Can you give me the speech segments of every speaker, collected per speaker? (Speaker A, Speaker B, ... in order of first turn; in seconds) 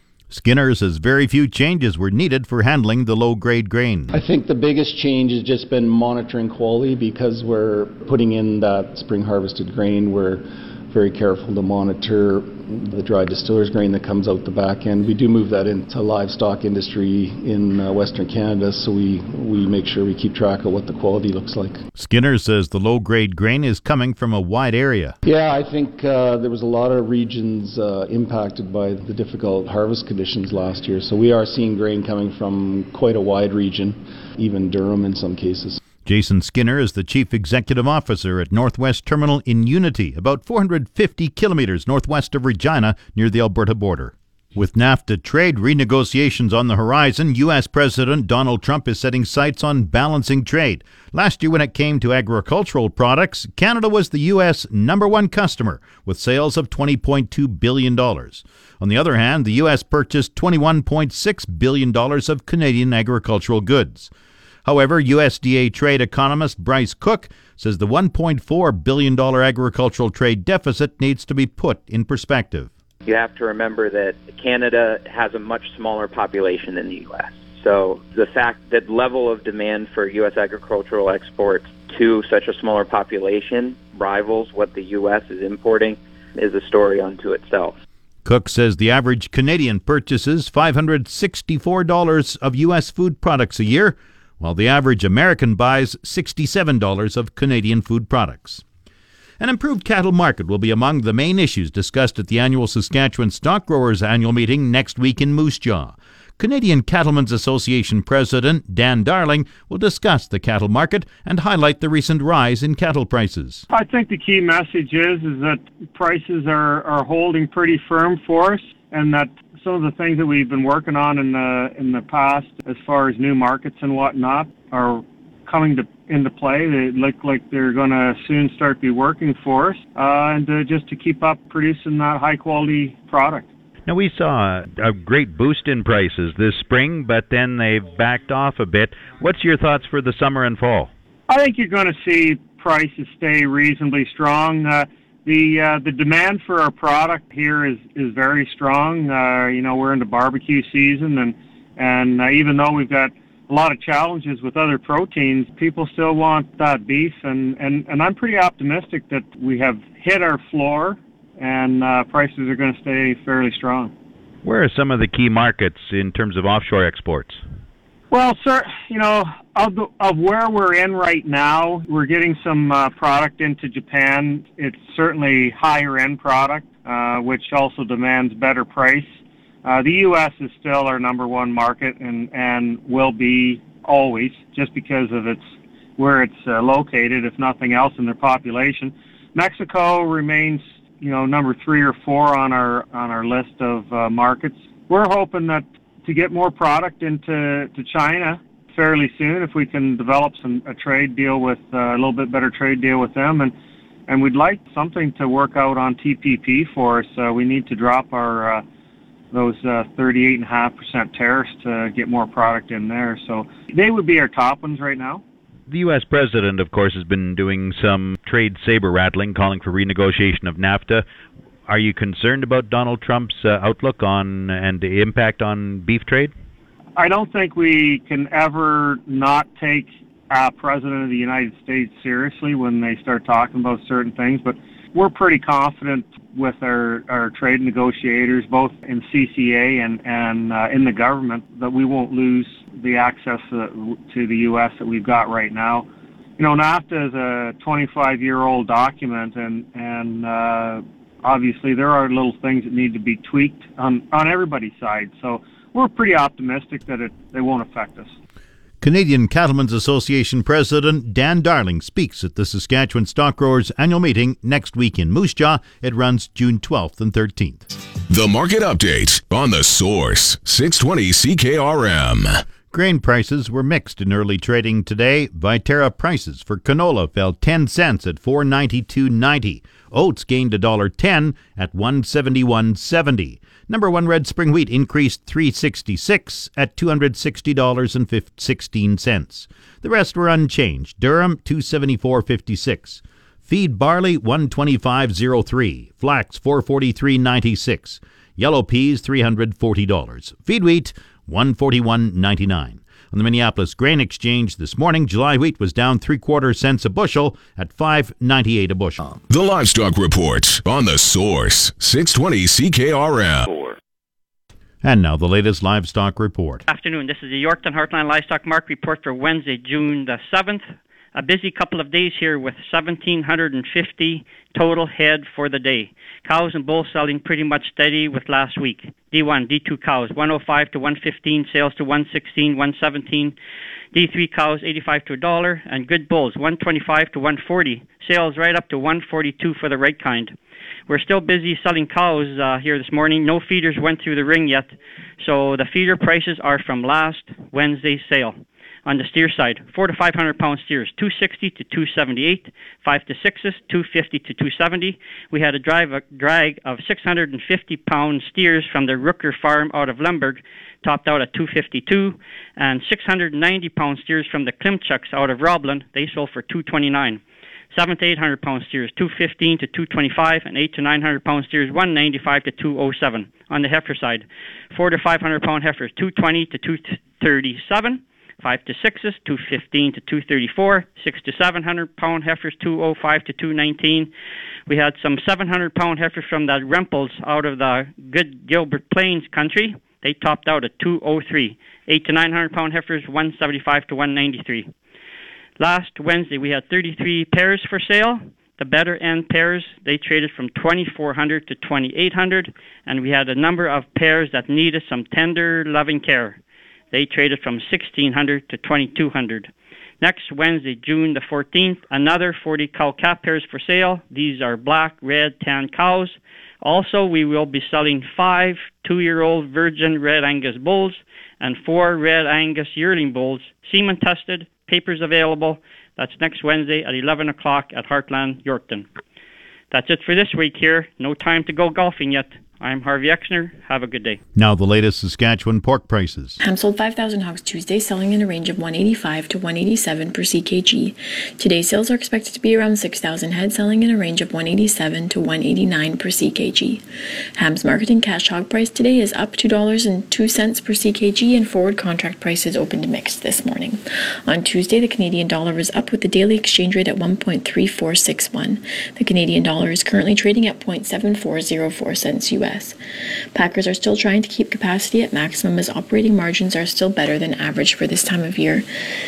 Speaker A: 0.3-4.1, 22.0-25.1, 36.0-64.1, 64.7-72.7, 88.2-98.6, 99.4-113.6, 258.8-267.6, 272.7-309.0, 314.8-316.6, 434.4-436.4
Speaker B: 4.1-21.8, 25.3-35.8
Speaker C: 73.1-87.7
Speaker D: 113.7-133.5, 141.3-163.9, 168.1-179.1, 179.7-185.4, 186.0-203.5, 204.1-208.6, 209.3-215.2, 227.0-245.9, 246.4-258.1
Speaker E: 133.9-140.9, 164.5-167.4, 215.7-221.0, 221.7-226.3
Speaker F: 268.1-272.3, 309.3-313.6
Speaker G: 316.7-320.6, 321.1-333.4, 333.9-340.3, 340.9-367.2, 367.7-384.1, 384.7-394.7, 395.6-406.4, 406.9-428.9, 429.7-434.2
Speaker H: 436.4-446.8, 447.4-462.8, 463.3-468.7